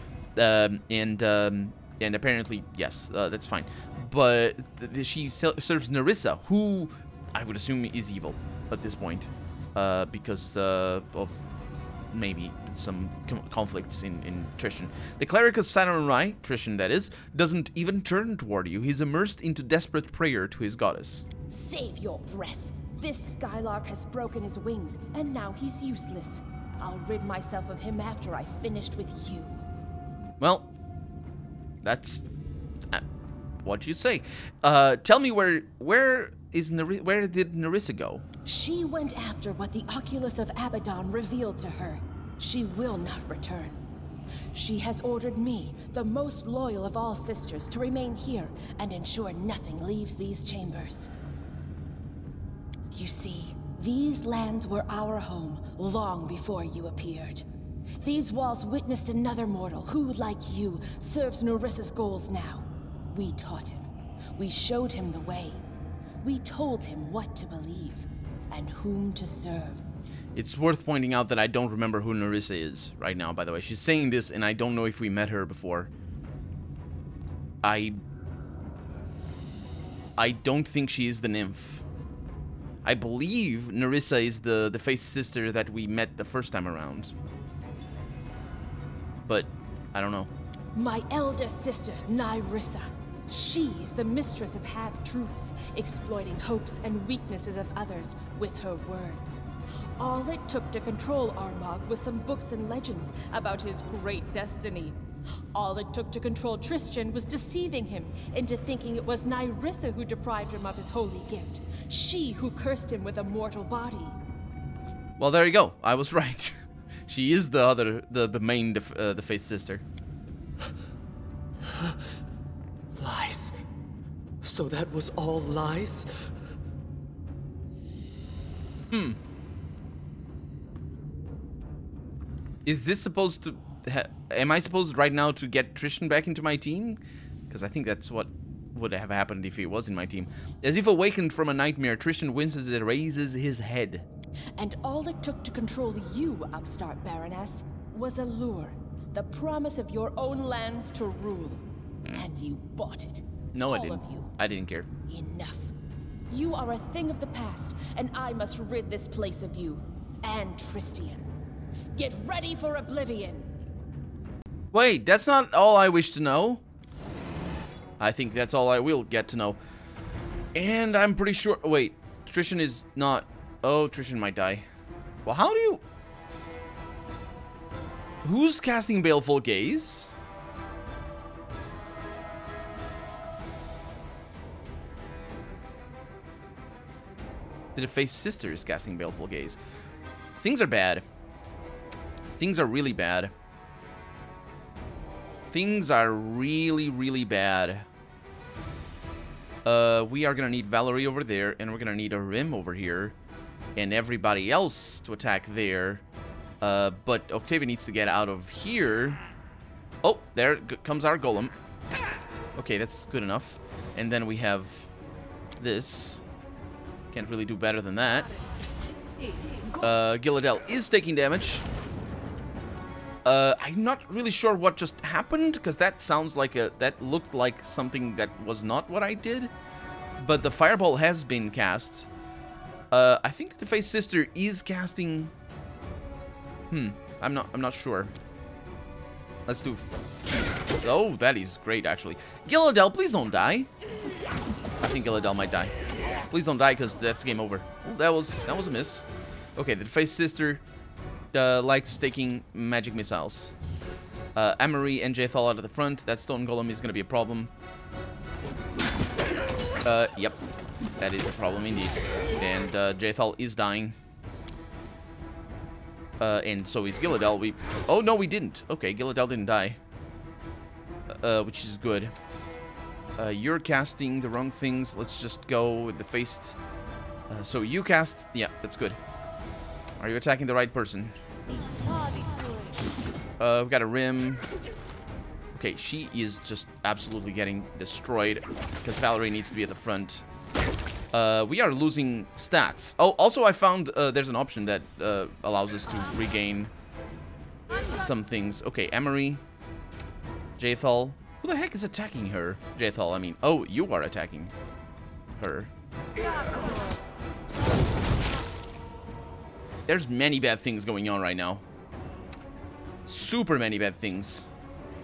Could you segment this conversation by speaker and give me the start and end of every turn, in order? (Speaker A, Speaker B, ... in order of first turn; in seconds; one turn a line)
Speaker A: 0.4-11.4
Speaker A: 12.1-21.3
Speaker B: 21.5-29.6
Speaker A: 30.4-30.7
Speaker A: 31.8-32.2
Speaker A: 33.6-38.2
Speaker B: 38.5-43.8
Speaker B: 44.5-51.1
Speaker B: 52.9-57.5
Speaker B: 58.0-65.6
Speaker B: 66.2-69.8
Speaker A: 70.3-75.9
Speaker A: 77.6-78.0
Speaker A: 80.2-81.8
Speaker A: 82.8-87.1
Speaker A: 89.3-90.3
Speaker B: 90.8-99.4
Speaker B: 100.0-105.0
Speaker B: 105.5-114.2
Speaker A: 115.2-116.6
Speaker A: 117.1-119.8
Speaker C: 121.6-122.0
Speaker C: 123.0-123.5
Speaker C: 124.4-126.3
Speaker A: 128.9-129.2
Speaker A: 132.7-144.1
Speaker B: 144.6-154.3
Speaker A: 153.5-154.9
Speaker B: 155.1-155.7
Speaker B: 156.3-161.3
Speaker B: 161.9-163.5
Speaker A: 164.7-166.6
Speaker A: 168.0-169.6
Speaker A: 170.6-174.7
Speaker A: 175.2-175.8
Speaker A: 178.2-180.2
Speaker A: 187.8-189.6
Speaker A: 190.4-191.1
Speaker A: 192.4-193.3
Speaker A: 195.5-197.9
Speaker A: 199.7-203.2
Speaker A: 203.8-206.0
Speaker A: 206.6-209.2
Speaker A: 210.0-211.5
Speaker A: 212.6-214.9
Speaker A: 215.6-216.2
Speaker A: 217.1-218.3
Speaker A: 219.8-221.7
Speaker A: 223.2-229.5
Speaker A: 230.2-232.1
Speaker A: 232.9-235.3
Speaker A: 236.7-238.1
Speaker A: 239.5-243.7
Speaker A: 244.8-245.7
Speaker A: 246.3-250.6
Speaker A: 251.3-253.5
Speaker A: 254.3-257.5
Speaker A: 259.9-260.4
Speaker A: 261.0-264.0
Speaker A: 266.2-269.8
Speaker A: 271.1-272.1
Speaker A: 273.2-276.6
Speaker A: 277.3-279.0
Speaker A: 280.0-281.2
Speaker A: 283.4-284.4
Speaker A: 285.5-290.2
Speaker A: 291.1-296.7
Speaker A: 297.9-299.4
Speaker A: 300.6-304.5
Speaker A: 305.4-305.7
Speaker A: 309.9-311.6
Speaker A: 313.1-314.5